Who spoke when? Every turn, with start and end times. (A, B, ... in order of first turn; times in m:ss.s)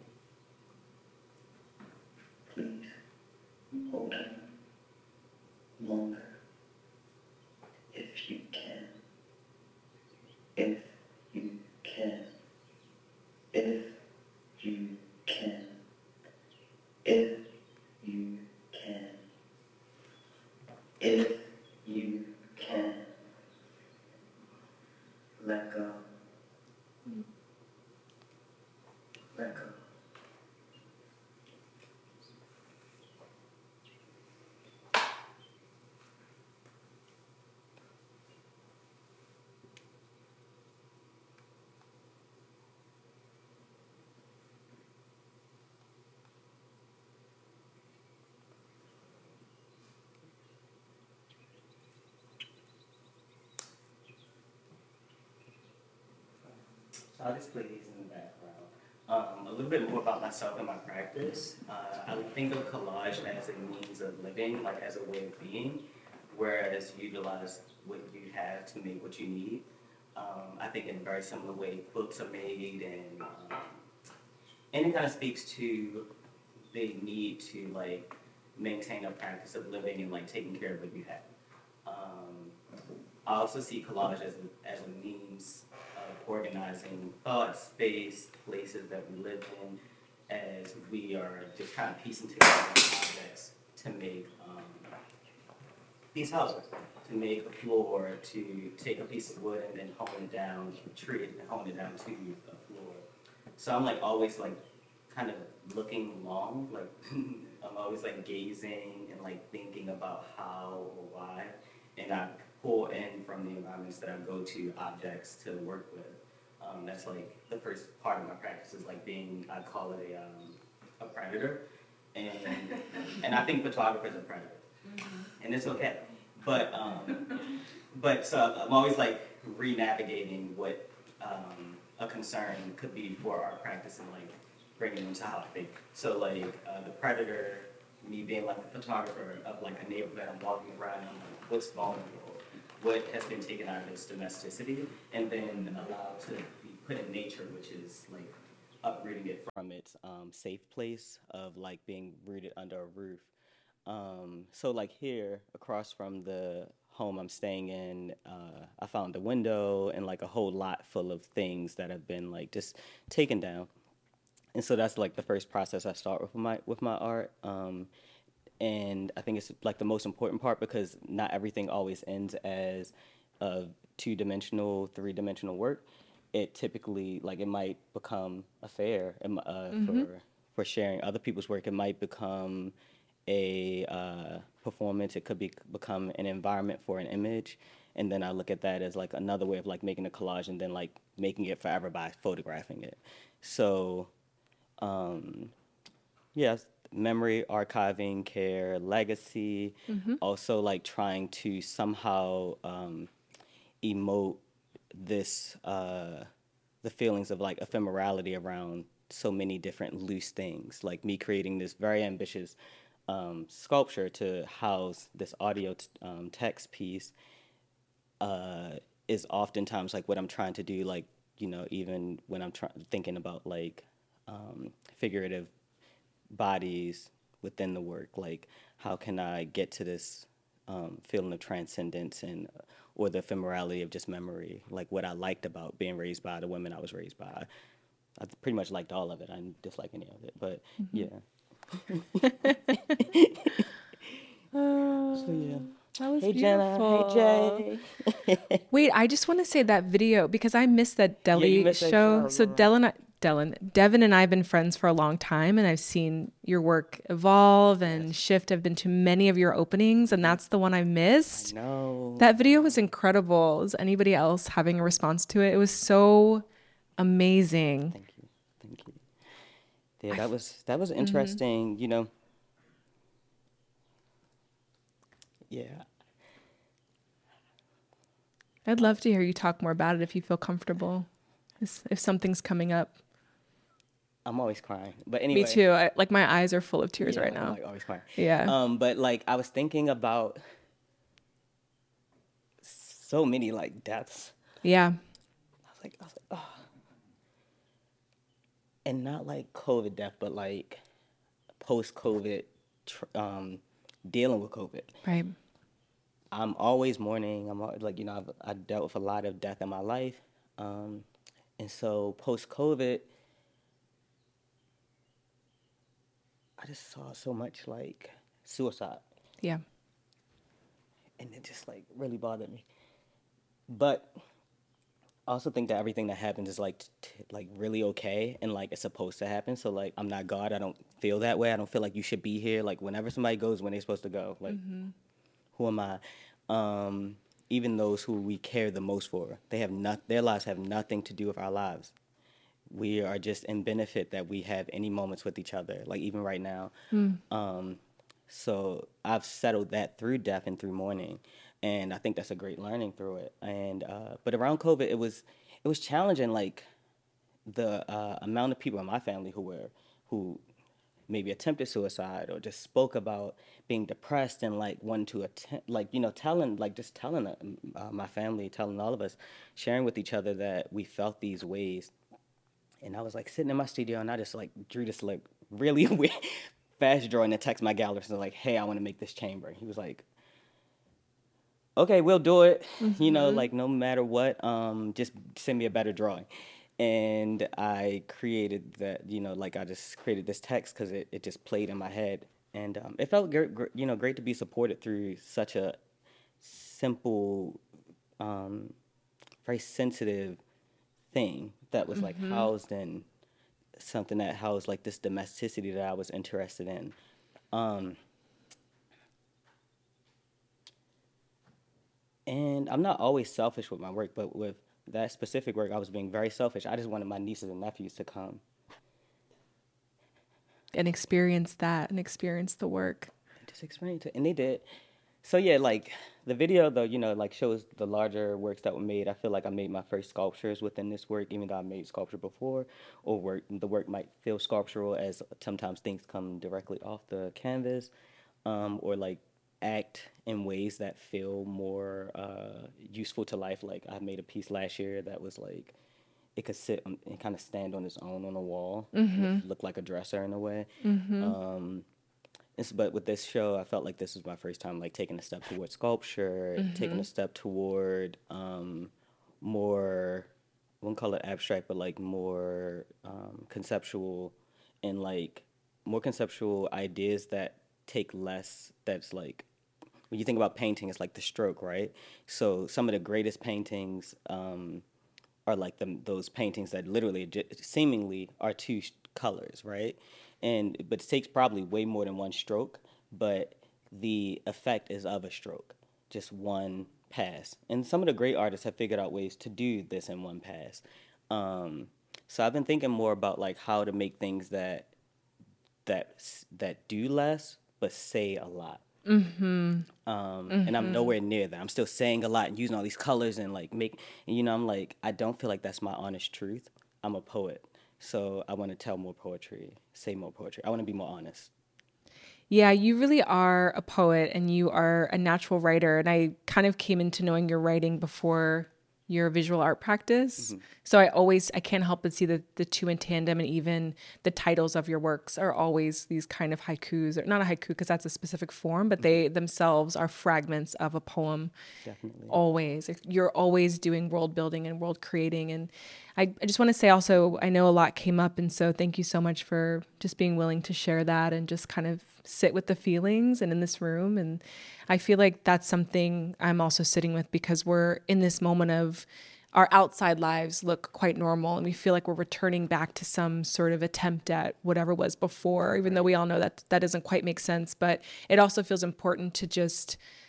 0:02.5-0:02.9 A
0:03.9-0:04.4 A
0:05.8-0:06.3 A
0:07.9-0:09.0 A
0:10.6-0:12.3 A
0:13.5-0:14.0 A
0:14.6-0:15.8 A
0:17.0-0:17.4 A
0:18.0-0:19.2 A
0:21.0-0:23.1 A
0:25.4-0:26.1 A
0:29.3-0:29.7 A
0:57.1-1:13.8 B
1:14.7-1:16.1 B
1:16.7-1:21.2 B
1:21.8-1:22.6 B
1:23.2-1:34.9 B
1:36.1-1:43.0 B
1:43.6-2:01.6 B
2:02.1-2:04.6 B
2:05.4-2:07.4 B
2:07.9-2:33.3 B
2:33.8-2:43.7 B
2:44.5-2:47.9 B
2:48.6-3:02.7 B
2:59.7-3:00.1 C
3:03.3-3:14.1 B
3:14.8-3:15.5 B
3:16.3-3:23.1 B
3:19.9-3:20.2 C
3:23.8-3:24.4 B
3:24.9-3:26.3 B
3:26.8-3:32.6 B
3:33.1-3:37.1 B
3:38.2-3:45.5 B
3:46.3-3:57.5 B
3:58.2-4:04.3 B
4:00.8-4:01.1 C
4:02.2-4:03.2 C
4:04.5-4:07.6 C
4:05.1-4:08.6 B
4:08.7-4:21.5 C
4:11.3-4:12.7 B
4:17.8-4:18.1 B
4:20.1-4:20.4 B
4:21.3-4:22.9 B
4:22.2-4:26.4 C
4:27.0-4:27.9 C
4:27.9-4:29.0 B
4:30.0-4:32.1 B
4:31.0-4:31.4 C
4:35.5-4:35.8 B
4:38.7-4:41.1 C
4:41.6-4:43.0 C
4:44.2-4:45.6 B
4:45.3-4:47.6 C
4:47.0-4:50.4 B
4:48.2-4:48.5 C
4:52.6-4:54.4 B
4:54.6-4:55.0 C
4:55.6-4:56.7 B
4:58.8-5:00.8 B
5:01.6-5:05.0 B
5:05.0-5:05.3 C
5:06.3-5:11.0 B
5:11.6-5:13.1 B
5:16.6-5:19.0 B
5:21.2-5:22.6 B
5:23.7-5:24.1 B
5:25.3-5:34.6 B
5:34.5-5:34.9 C
5:35.5-5:41.9 B
5:42.7-5:46.7 B
5:46.9-5:47.2 C
5:47.3-5:56.7 B
5:57.4-6:00.4 B
6:01.1-6:11.9 B
6:12.8-6:20.0 B
6:21.8-6:26.3 B
6:22.8-6:23.4 C
6:26.8-6:35.8 B
6:36.4-6:37.6 B
6:38.2-6:38.8 B
6:39.4-6:40.4 B
6:41.1-6:43.0 B
6:41.9-6:42.5 C
6:43.8-6:47.0 B
6:47.5-6:48.0 B
6:52.3-6:58.4 B
7:00.7-7:03.1 C
7:03.4-7:04.6 B
7:05.2-7:17.9 B
7:18.4-7:25.7 B
7:26.4-7:30.7 B
7:28.9-7:29.4 C
7:30.8-7:31.3 C
7:31.2-7:31.8 B
7:32.6-7:40.3 B
7:36.6-7:37.0 C
7:40.8-7:49.5 B
7:50.1-7:54.8 B
7:55.5-8:14.9 B
8:15.8-8:18.8 B
8:19.0-8:19.9 C
8:20.0-8:31.5 B
8:20.5-8:21.1 C
8:32.5-8:51.5 C
8:40.4-8:40.6 B
8:51.8-8:52.4 B
8:52.3-9:20.0 C
9:15.5-9:16.1 B